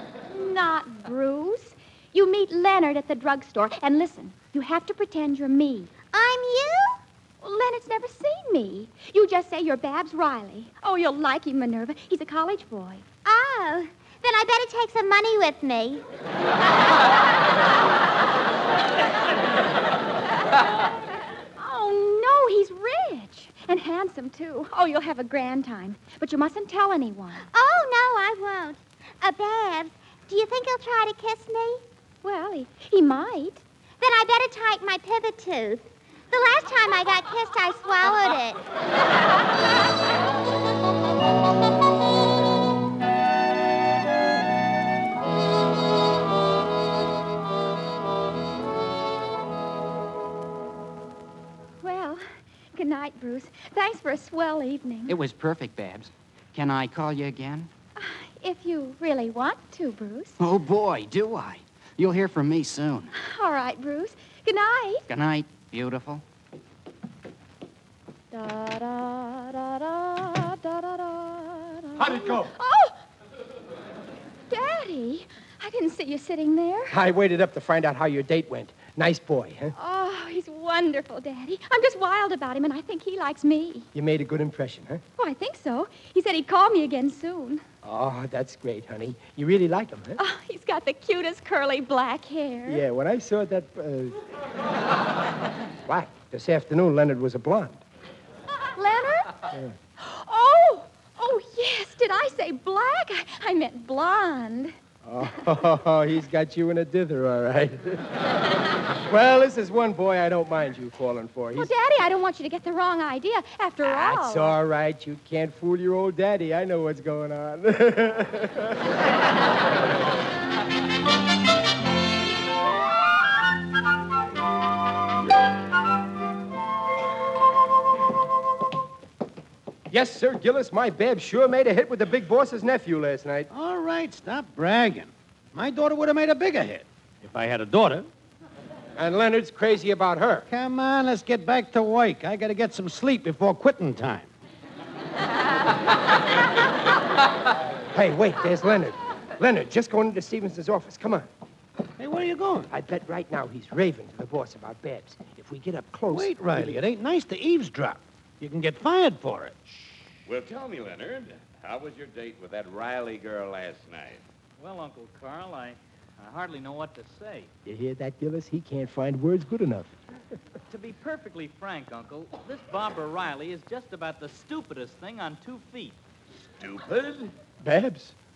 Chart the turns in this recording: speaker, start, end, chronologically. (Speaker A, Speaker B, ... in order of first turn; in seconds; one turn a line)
Speaker A: 0.3-5.9
Speaker B: 6.1-7.0
Speaker A: 7.4-13.0
Speaker B: 13.2-16.0
Speaker A: 21.6-27.4
Speaker B: 27.5-31.8
Speaker A: 32.2-33.6
Speaker B: 34.0-38.6
Speaker A: 51.8-52.2
Speaker A: 52.7-55.1
Speaker C: 55.1-57.7
Speaker A: 58.0-60.4
Speaker C: 60.4-63.1
Speaker A: 63.2-65.0
Speaker C: 65.1-66.2
Speaker A: 68.3-73.0
Speaker D: 72.0-72.5
Speaker A: 74.5-77.0
Speaker D: 76.9-79.7
Speaker A: 79.7-83.9
Speaker D: 83.9-85.0
Speaker A: 85.2-87.6
Speaker D: 87.8-90.2
Speaker A: 90.2-92.8
Speaker D: 92.7-94.2
Speaker D: 95.8-97.8
Speaker A: 98.8-99.5
Speaker A: 100.0-104.7
Speaker D: 105.0-108.1
Speaker D: 109.1-111.7
Speaker A: 111.5-114.6
Speaker D: 113.8-118.8
Speaker D: 129.9-133.5
Speaker E: 133.5-138.1
Speaker D: 139.0-140.5
Speaker E: 140.5-144.3
Speaker D: 147.9-151.3
Speaker E: 152.0-152.7
Speaker D: 152.7-156.8
Speaker E: 156.1-159.6
Speaker F: 160.2-164.2
Speaker G: 164.6-167.5
Speaker D: 167.7-169.9
Speaker G: 170.7-176.0
Speaker F: 176.6-177.3
Speaker D: 177.6-178.1